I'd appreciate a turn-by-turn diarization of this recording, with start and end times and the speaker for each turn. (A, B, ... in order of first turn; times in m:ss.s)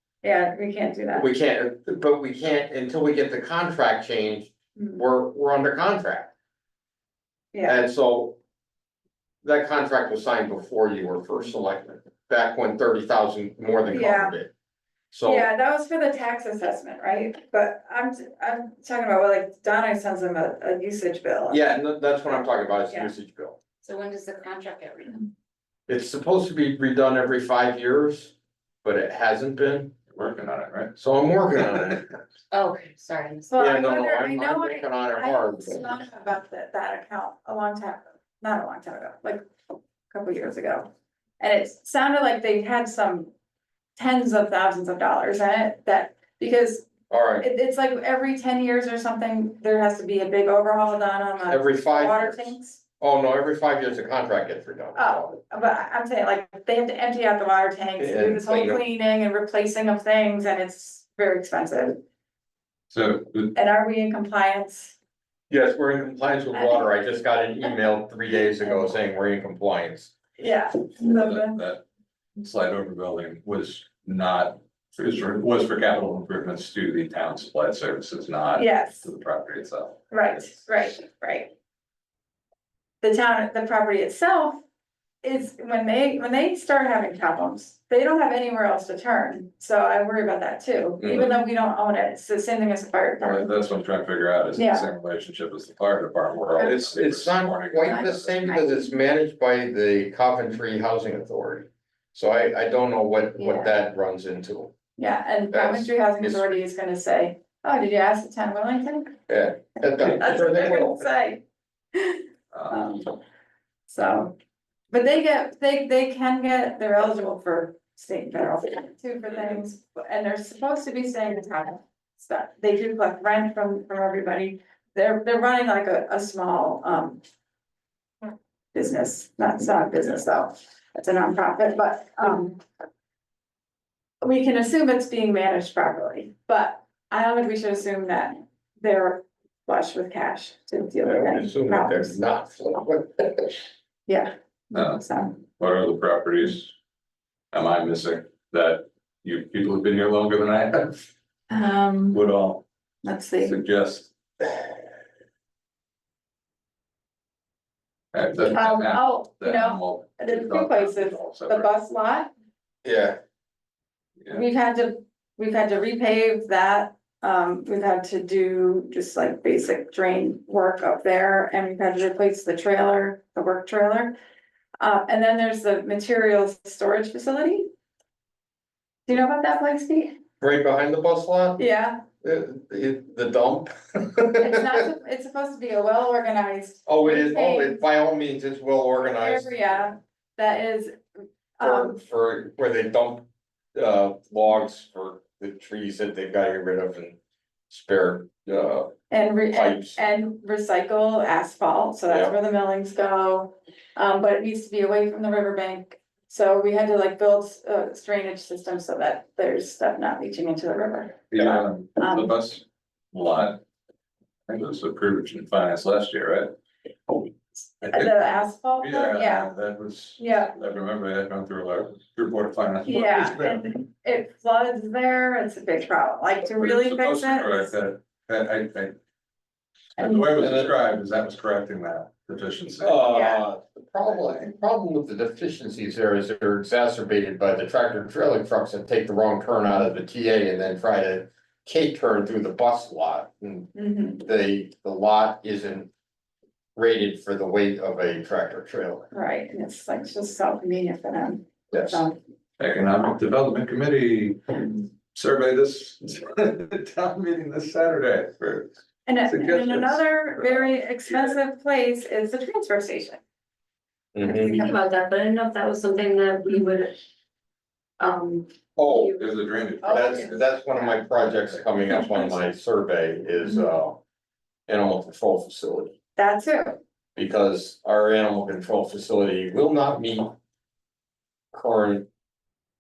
0:00.2-0:01.3 A
0:01.2-0:06.3 B
0:04.8-0:05.0 A
0:07.5-0:07.8 A
0:07.6-0:08.4 B
0:09.4-0:14.5 B
0:13.9-0:14.4 A
0:15.1-0:15.5 B
0:15.2-0:21.6 A
0:21.5-0:23.6 B
0:23.8-0:25.2 C
0:25.9-0:29.9 B
0:30.1-0:30.9 D
0:31.0-0:32.2 B
0:32.5-0:33.5 C
0:33.5-0:39.4 A
0:33.6-0:36.0 B
0:40.1-0:40.9 A
0:41.4-0:43.3 A
0:44.0-0:52.8 A
0:47.1-0:47.5 B
0:51.5-0:55.3 B
0:55.0-1:02.0 A
0:58.0-0:58.8 B
1:02.9-1:03.5 D
1:03.5-1:05.0 A
1:05.5-1:10.1 B
1:06.5-1:06.9 A
1:10.4-1:11.6 A
1:11.0-1:11.8 D
1:12.4-1:20.7 D
1:18.6-1:19.1 A
1:20.1-1:21.5 A
1:23.0-1:24.6 A
1:25.2-1:33.5 A
1:31.0-1:31.3 B
1:33.2-1:38.3 D
1:34.6-1:34.9 A
1:36.6-1:44.7 B
1:37.8-1:38.9 A
1:43.4-1:43.7 A
1:45.0-1:49.2 A
1:45.5-1:46.6 B
1:49.3-1:51.0 B
1:50.2-1:51.4 A
1:51.9-1:53.2 A
1:52.5-1:52.8 D
1:53.9-1:54.3 A
1:54.9-2:07.2 A
2:08.7-2:12.6 A
2:14.2-2:22.2 A
2:21.0-2:23.6 B
2:24.1-2:25.4 A
2:24.7-2:26.7 D
2:27.5-2:31.0 D
2:31.5-2:32.2 A
2:32.1-2:32.6 D
2:33.0-2:33.6 A
2:33.4-2:34.1 D
2:38.1-2:41.7 D
2:38.5-2:42.3 A
2:42.8-2:43.2 B
2:44.3-2:54.1 A
2:54.8-2:57.7 A
2:59.1-3:00.2 A
3:00.4-3:01.6 B
3:01.6-3:02.0 A
3:02.2-3:04.8 B
3:04.4-3:07.8 A
3:06.9-3:09.8 B
3:09.2-3:11.0 A
3:11.6-3:12.0 A
3:11.6-3:17.2 B
3:17.7-3:18.9 B
3:19.1-3:32.3 A
3:19.5-3:20.0 B
3:22.1-3:22.4 B
3:31.3-3:33.6 D
3:34.5-3:36.6 D
3:37.8-3:38.3 D
3:37.9-3:39.5 A
3:38.8-3:43.7 D
3:40.2-3:40.6 A
3:42.8-3:47.7 A
3:46.5-3:49.0 D
3:50.0-3:53.1 D
3:50.0-3:50.3 A
3:50.4-3:50.7 B
3:52.8-4:05.9 B
3:53.1-3:53.4 A
4:03.8-4:04.2 A
4:06.8-4:09.1 B
4:09.1-4:12.2 A
4:11.7-4:12.0 D
4:12.6-4:18.7 D
4:19.1-4:23.2 A
4:19.2-4:21.3 D
4:24.1-4:24.7 B
4:24.2-4:27.0 C
4:28.0-4:29.3 C
4:28.8-4:29.2 B
4:29.2-4:30.5 D
4:29.8-4:30.4 A
4:29.9-4:34.0 B
4:34.7-4:35.9 B
4:36.2-4:36.8 A
4:37.2-4:40.3 B
4:41.5-4:42.1 B